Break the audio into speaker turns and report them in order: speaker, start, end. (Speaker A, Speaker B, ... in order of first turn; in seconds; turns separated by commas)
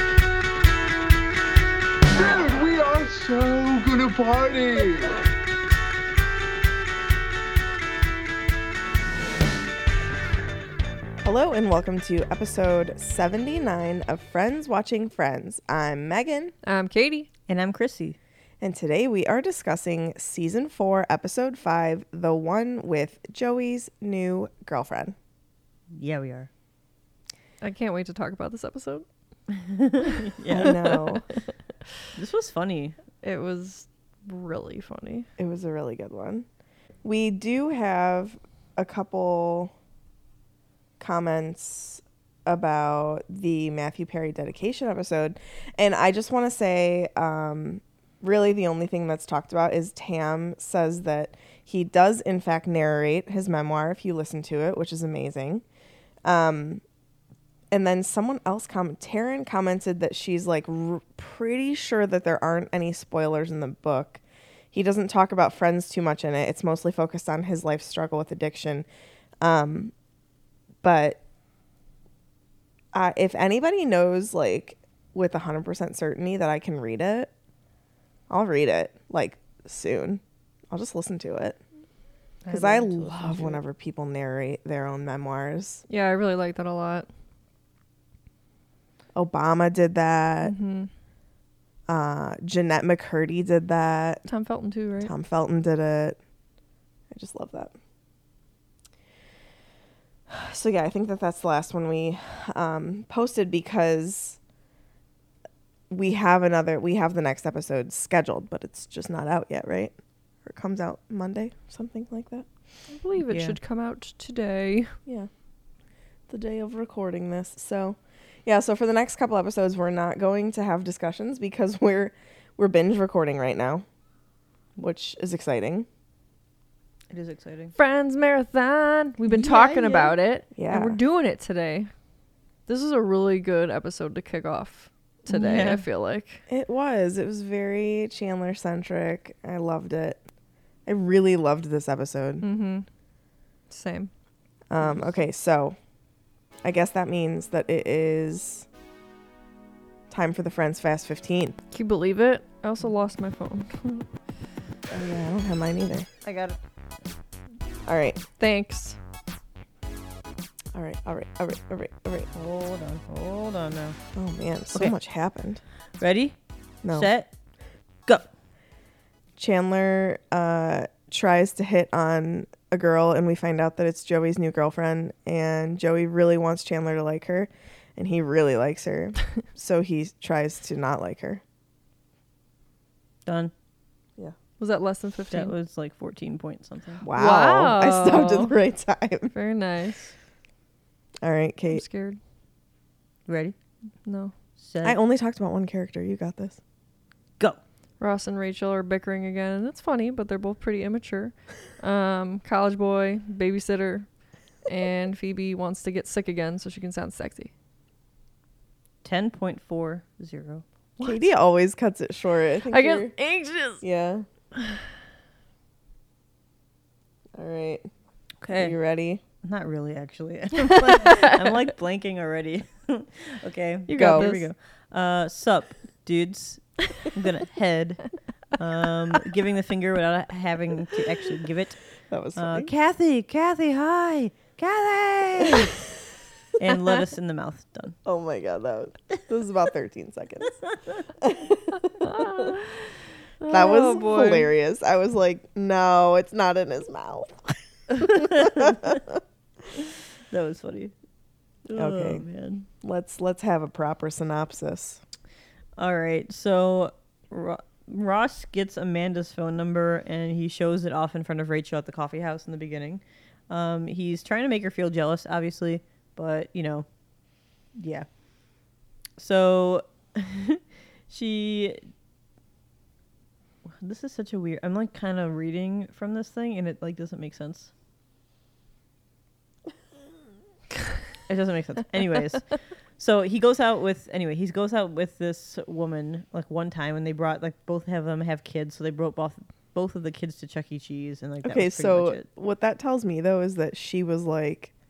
Speaker A: 2.1-5.2, Speaker B: 11.2-16.5, Speaker C: 16.6-17.3, Speaker D: 17.5-18.2, Speaker B: 18.6-25.1, Speaker D: 25.9-26.5, Speaker C: 27.6-29.0, Speaker D: 29.6-30.8, Speaker B: 30.5-31.2, Speaker C: 30.5-31.4, Speaker D: 32.1-33.0, Speaker C: 33.2-35.3, Speaker B: 35.4-36.5, Speaker B: 37.0-39.7, Speaker B: 41.0-55.6, Speaker B: 56.2-56.8, Speaker B: 57.7-64.2, Speaker B: 64.7-68.8, Speaker B: 69.4-69.9, Speaker B: 70.8-71.2, Speaker B: 72.9-77.3, Speaker B: 78.3-81.6, Speaker D: 82.4-83.6, Speaker B: 82.5-85.8, Speaker C: 85.9-87.1, Speaker B: 89.1-90.5, Speaker C: 90.4-90.9, Speaker B: 91.9-94.2, Speaker C: 94.2-95.1, Speaker B: 95.0-96.2, Speaker B: 97.1-97.7, Speaker B: 100.3-104.4, Speaker B: 105.9-112.5, Speaker C: 112.9-114.9, Speaker D: 113.3-113.5, Speaker B: 116.3-123.8, Speaker B: 124.8-125.9, Speaker D: 127.1-127.7, Speaker C: 127.8-131.9, Speaker D: 129.2-130.1, Speaker B: 130.5-131.0, Speaker C: 132.7-136.4, Speaker D: 135.3-135.8, Speaker B: 136.5-140.2, Speaker B: 140.8-142.4, Speaker C: 142.4-142.8, Speaker C: 143.7-144.1, Speaker B: 144.7-145.8, Speaker B: 146.6-148.7, Speaker B: 150.1-151.6, Speaker C: 151.7-154.1, Speaker B: 154.9-156.1, Speaker D: 156.2-156.6, Speaker B: 157.8-158.2, Speaker C: 158.4-159.0, Speaker B: 160.7-162.3, Speaker D: 162.3-164.0, Speaker B: 164.1-165.6, Speaker D: 166.0-166.3, Speaker D: 166.9-167.3, Speaker B: 169.4-181.4, Speaker D: 183.2-183.5, Speaker C: 184.6-185.5, Speaker D: 185.3-187.0, Speaker B: 187.0-189.3, Speaker C: 187.1-188.5, Speaker C: 189.3-190.1, Speaker B: 191.2-191.8, Speaker C: 191.7-192.2, Speaker D: 193.3-193.5, Speaker C: 194.0-194.3, Speaker D: 194.6-195.0, Speaker B: 194.8-196.6, Speaker C: 198.0-204.1, Speaker C: 204.7-207.5, Speaker D: 209.0-210.6, Speaker C: 211.0-211.3, Speaker B: 211.0-213.1, Speaker C: 212.7-213.8, Speaker B: 213.8-214.2, Speaker B: 217.3-217.8, Speaker D: 218.4-218.8, Speaker B: 218.5-219.2, Speaker D: 219.4-231.8, Speaker C: 220.7-221.4, Speaker C: 223.9-224.4, Speaker B: 223.9-224.3, Speaker B: 232.1-232.7, Speaker D: 232.3-235.8, Speaker D: 236.6-237.9, Speaker B: 238.0-240.5, Speaker B: 241.2-242.5, Speaker C: 242.0-242.6, Speaker C: 243.4-244.5, Speaker B: 243.5-249.2, Speaker D: 247.9-249.0, Speaker D: 249.8-250.9, Speaker D: 251.7-252.7, Speaker B: 251.7-252.2, Speaker B: 252.8-255.0, Speaker D: 255.8-266.9, Speaker D: 267.7-268.1, Speaker D: 269.2-271.8, Speaker D: 273.7-277.7, Speaker D: 281.3-282.4, Speaker D: 283.0-292.2, Speaker B: 291.4-294.7